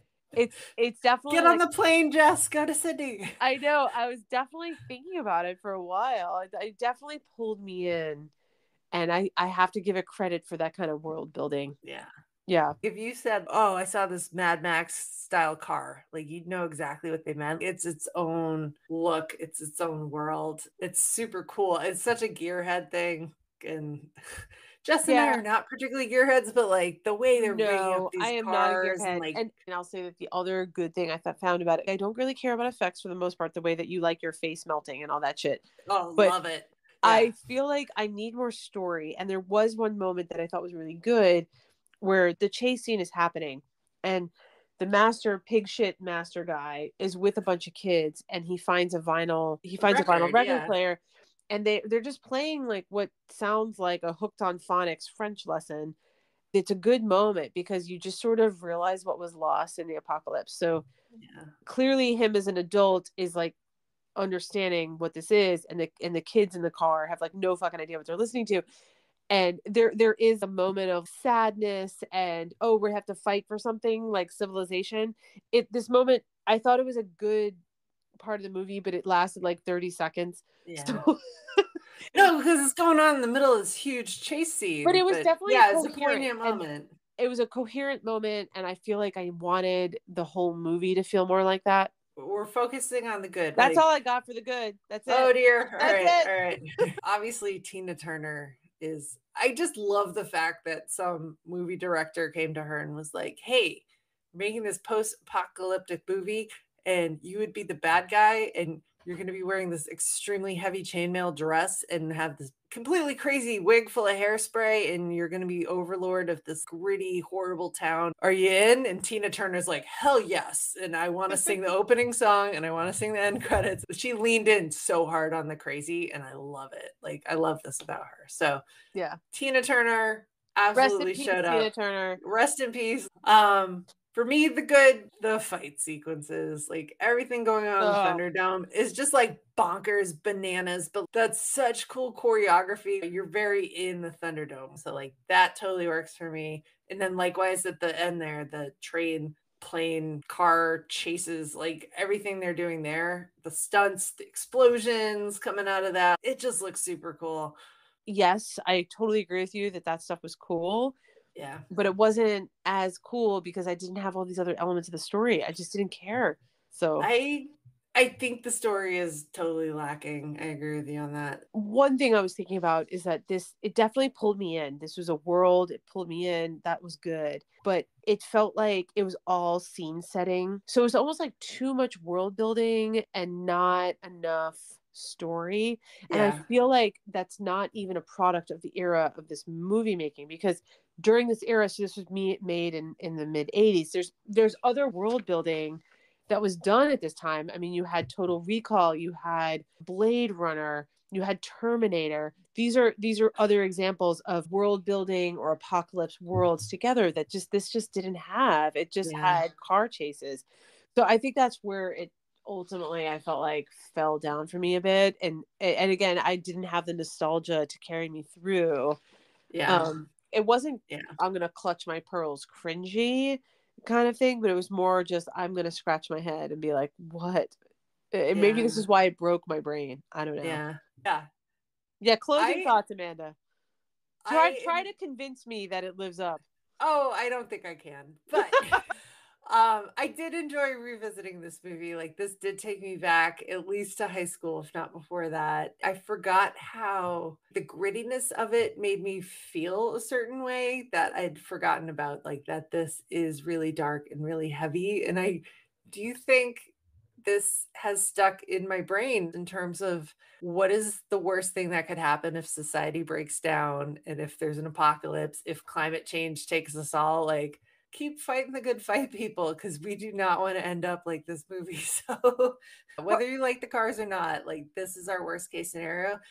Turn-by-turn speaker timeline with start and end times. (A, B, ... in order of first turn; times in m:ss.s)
0:00.3-0:01.6 A
0:01.3-0:03.3 B
0:03.4-0:08.3 A
0:08.9-0:11.8 A
0:11.8-0:12.1 B
0:12.5-0:12.7 A
0:12.8-0:29.4 B
0:25.0-0:25.4 A
0:27.3-0:35.6 A
0:35.9-0:37.3 B
0:37.0-0:41.5 A
0:42.0-0:56.0 A
0:49.8-0:50.7 B
0:56.5-1:00.8 A
1:01.2-1:01.5 B
1:01.6-1:03.5 A
1:04.2-1:08.6 A
1:09.3-1:17.6 A
1:18.2-1:21.7 A
1:20.6-1:21.0 B
1:22.1-1:26.9 B
1:24.8-1:26.6 A
1:27.2-1:31.9 A
1:32.2-1:33.8 B
1:33.6-1:36.3 A
1:35.1-2:08.6 B
2:09.3-2:37.6 B
2:10.7-2:12.2 A
2:17.8-2:18.2 A
2:38.0-2:40.9 A
2:41.3-2:41.6 B
2:41.7-2:47.1 A
2:47.0-2:51.4 B
2:51.5-3:39.0 A
3:06.1-3:06.4 B
3:29.0-3:29.4 B
3:39.5-3:39.9 B
3:39.7-3:47.5 A
3:48.1-3:50.6 A
3:48.3-3:48.8 B
3:50.4-3:51.3 B
3:52.0-3:53.4 A
3:52.4-3:52.7 B
3:54.2-3:54.8 B
3:54.3-3:56.4 A
3:56.8-3:58.8 B
3:59.4-4:36.2 B